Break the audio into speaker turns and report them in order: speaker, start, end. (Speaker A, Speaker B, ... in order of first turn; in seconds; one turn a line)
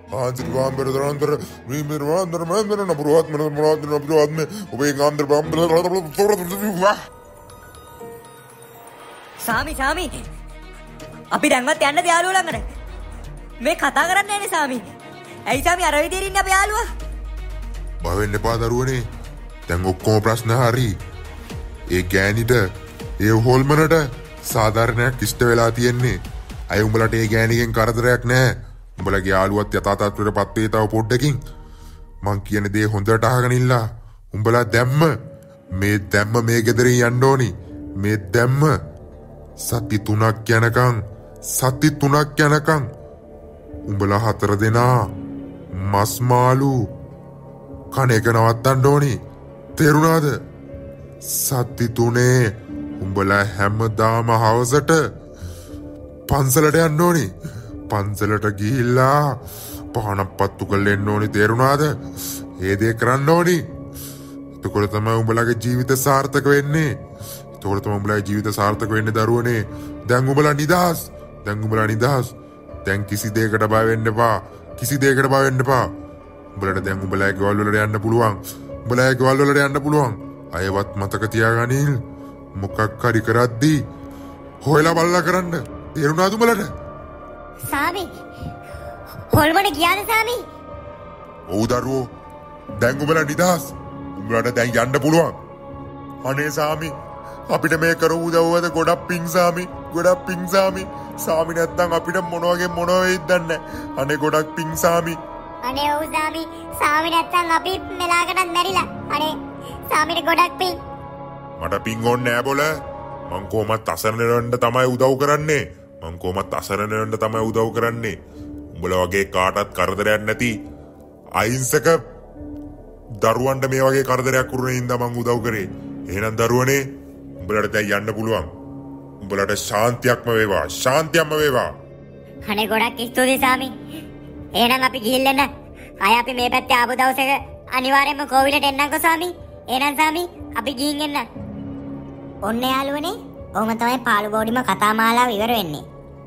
Speaker A: 0.1-7.0
Speaker B: 9.4-10.1
Speaker B: 11.3-12.6
Speaker B: 13.6-14.8
Speaker B: 15.5-16.9
Speaker A: 18.0-19.0
Speaker A: 19.7-20.9
Speaker A: 21.9-22.6
Speaker A: 23.2-26.2
Speaker A: 26.7-31.4
Speaker A: 32.3-33.8
Speaker A: 34.3-35.1
Speaker A: 35.8-38.7
Speaker A: 39.6-41.0
Speaker A: 41.6-42.9
Speaker A: 43.9-45.0
Speaker A: 45.8-46.7
Speaker A: 47.9-49.2
Speaker A: 49.8-50.4
Speaker A: 51.3-52.3
Speaker A: 53.0-55.0
Speaker A: 56.3-57.3
Speaker A: 57.9-59.4
Speaker A: 59.9-61.9
Speaker A: 62.6-63.6
Speaker A: 64.6-66.9
Speaker A: 67.6-72.3
Speaker A: 72.9-75.9
Speaker A: 76.6-82.0
Speaker A: 82.6-83.8
Speaker A: 84.6-86.7
Speaker C: 87.7-88.1
Speaker C: 89.3-90.4
Speaker A: 91.5-92.0
Speaker A: 92.8-95.3
Speaker A: 96.3-96.9
Speaker A: 97.5-105.2
Speaker C: 105.6-109.4
Speaker C: 109.9-110.8
Speaker A: 111.6-112.7
Speaker A: 113.3-118.2
Speaker A: 118.8-120.5
Speaker A: 121.4-122.0
Speaker A: 123.2-126.8
Speaker A: 127.4-128.5
Speaker A: 129.2-131.7
Speaker C: 132.5-133.7
Speaker C: 134.6-135.5
Speaker C: 136.0-141.3
Speaker C: 142.5-145.8